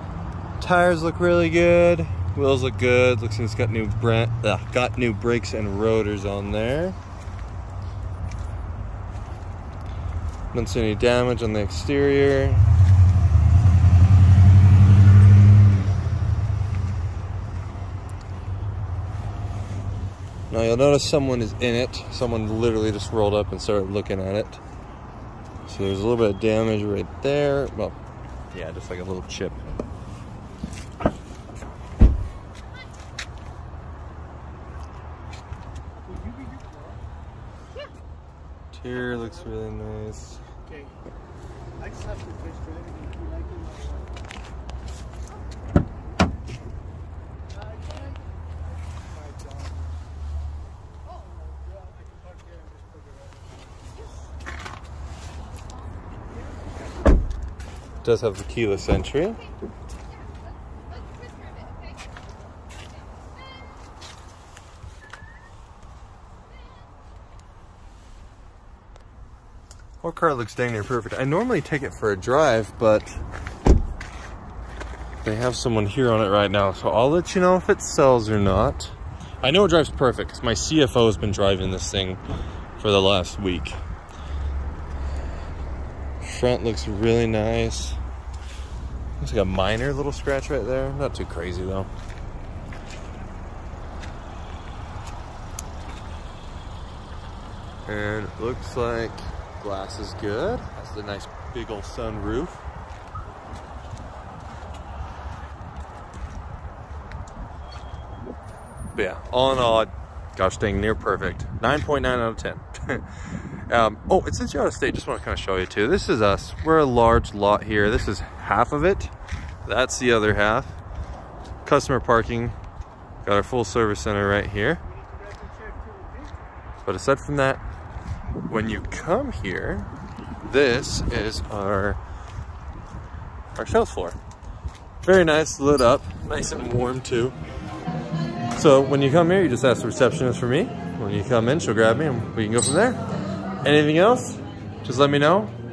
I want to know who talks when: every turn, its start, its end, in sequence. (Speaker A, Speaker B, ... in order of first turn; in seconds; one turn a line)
Speaker A: 0.6-7.0
Speaker A: 10.5-12.6
Speaker A: 20.5-24.6
Speaker A: 25.7-28.0
Speaker A: 28.5-29.6
Speaker B: 36.0-37.0
Speaker A: 38.7-40.4
Speaker B: 40.6-40.9
Speaker B: 41.8-44.1
Speaker B: 47.6-48.2
Speaker B: 49.1-49.8
Speaker B: 51.4-53.4
Speaker A: 58.0-59.4
Speaker A: 70.0-73.2
Speaker A: 75.2-82.2
Speaker A: 82.8-83.8
Speaker A: 86.2-88.0
Speaker A: 89.2-91.9
Speaker A: 97.9-102.6
Speaker A: 108.9-119.1
Speaker A: 119.7-120.8
Speaker A: 121.6-122.5
Speaker A: 123.2-124.8
Speaker B: 124.9-126.4
Speaker A: 126.8-127.6
Speaker A: 128.5-129.9
Speaker A: 130.4-132.0
Speaker A: 133.6-134.2
Speaker A: 135.0-137.3
Speaker A: 138.5-143.0
Speaker A: 143.6-145.5